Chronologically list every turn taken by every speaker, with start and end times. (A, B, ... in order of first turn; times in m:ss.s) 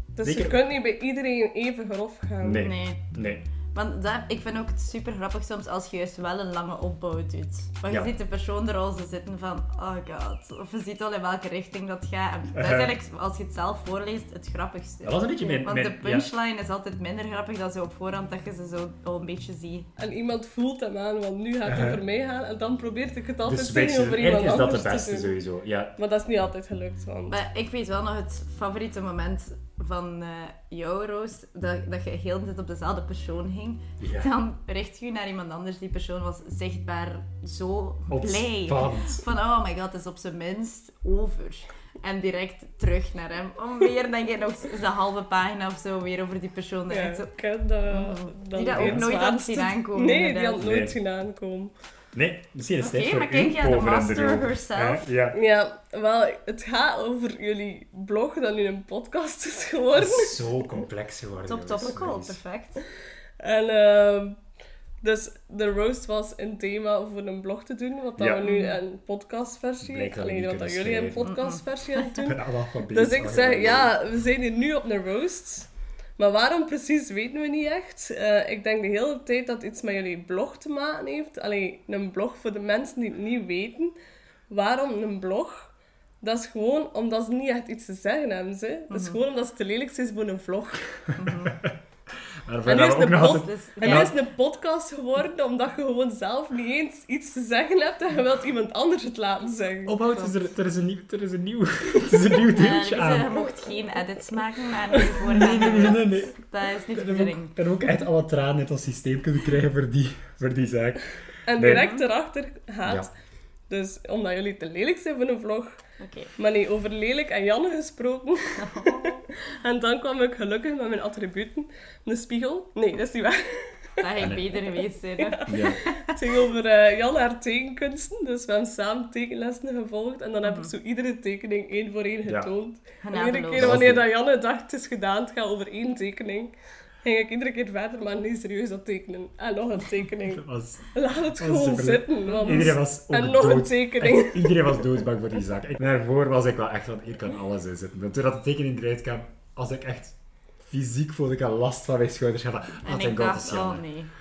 0:00.2-0:02.7 A
0:00.2-0:00.6 B
0:02.4-0:03.4 B
0:02.6-0:03.0 C
0:03.7-0:19.9 C
0:12.6-0:12.9 B
0:15.0-0:16.3 B
0:20.0-0:25.4 A
0:21.6-0:22.0 B
0:23.4-0:26.0 B
0:26.0-0:27.4 A
0:27.3-0:47.3 C
0:34.0-0:34.3 B
0:38.1-0:39.2 B
0:46.9-0:51.7 A
0:47.9-0:50.6 C
0:48.8-0:49.1 B
0:50.6-0:51.0 B
0:52.1-0:55.4 B
0:52.8-0:55.0 C
0:55.3-1:00.4 A
0:59.9-1:02.4 B
1:01.5-1:02.8 C
1:03.4-1:04.4 A
1:05.0-1:24.0 A
1:08.2-1:08.5 B
1:08.4-1:08.8 C
1:09.8-1:11.3 B
1:11.2-1:12.0 C
1:12.2-1:13.9 B
1:24.5-1:31.0 A
1:28.9-1:29.2 C
1:31.2-1:31.6 C
1:31.4-1:31.8 B
1:32.5-1:34.1 B
1:32.6-1:40.0 A
1:33.4-1:34.1 C
1:39.9-1:43.4 B
1:42.5-1:47.6 C
1:45.1-1:51.9 B
1:51.5-1:53.1 A
1:51.7-1:52.0 C
1:52.8-1:53.1 B
1:53.7-1:55.8 A
1:56.0-1:56.3 C
1:56.4-2:04.0 A
1:58.6-1:59.2 C
2:04.0-2:06.2 C
2:04.2-2:04.4 B
2:05.2-2:24.9 A
2:05.5-2:05.8 B
2:10.4-2:10.7 C
2:12.3-2:12.5 B
2:13.0-2:13.8 C
2:13.6-2:14.1 B
2:20.3-2:33.8 B
2:32.8-2:34.1 C